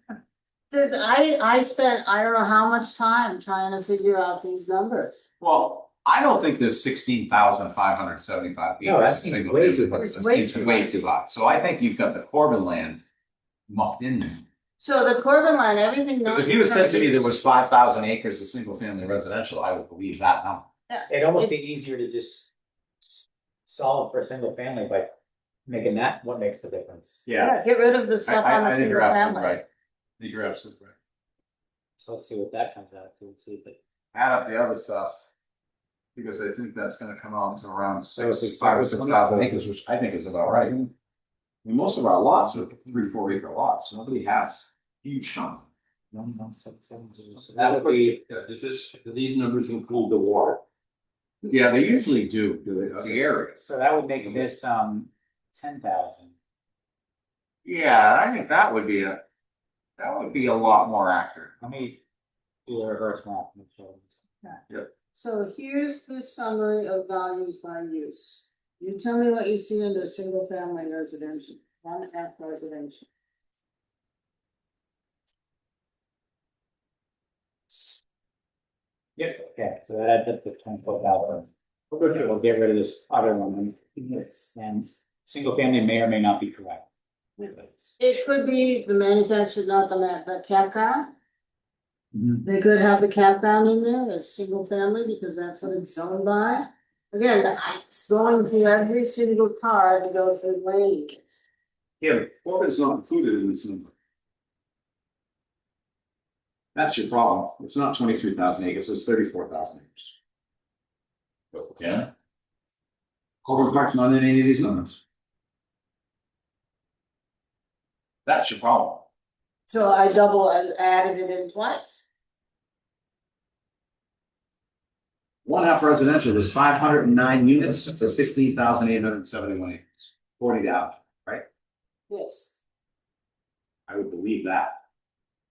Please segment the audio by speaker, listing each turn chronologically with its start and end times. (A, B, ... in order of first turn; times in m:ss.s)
0:00.7-0:05.2 A
0:05.4-0:13.0 B
0:08.8-0:10.3 C
0:09.9-0:11.0 A
0:13.7-0:14.4 B
0:14.8-0:17.3 A
0:16.2-0:20.7 B
0:20.9-0:21.5 A
0:21.1-0:22.5 C
0:23.0-0:25.1 C
0:25.7-0:27.2 C
0:27.2-0:27.5 B
0:27.4-0:29.6 A
0:28.2-0:29.6 B
0:30.2-0:30.9 B
0:32.0-0:33.8 C
0:34.1-0:35.3 B
0:36.1-0:40.7 B
0:38.2-0:39.7 C
0:40.4-0:40.9 C
0:41.6-0:45.6 B
0:42.5-0:42.9 C
0:46.1-0:48.2 C
0:47.5-0:50.6 D
0:51.4-0:53.6 B
0:52.6-0:53.2 D
0:53.6-0:56.3 C
0:57.6-0:59.2 B
1:00.0-1:01.5 B
1:01.6-1:02.0 C
1:02.7-1:04.2 C
1:05.1-1:13.1 A
1:19.2-1:26.9 C
1:27.4-1:27.7 C
1:28.0-1:31.1 A
1:32.1-1:32.4 C
1:32.4-1:41.4 A
1:42.0-1:43.9 B
1:46.7-1:50.1 B
1:51.5-1:52.1 D
1:53.4-1:55.0 B
1:58.2-1:59.0 B
1:59.7-2:02.1 A
2:05.4-2:11.4 B
2:12.1-2:12.6 A
2:13.9-2:14.7 B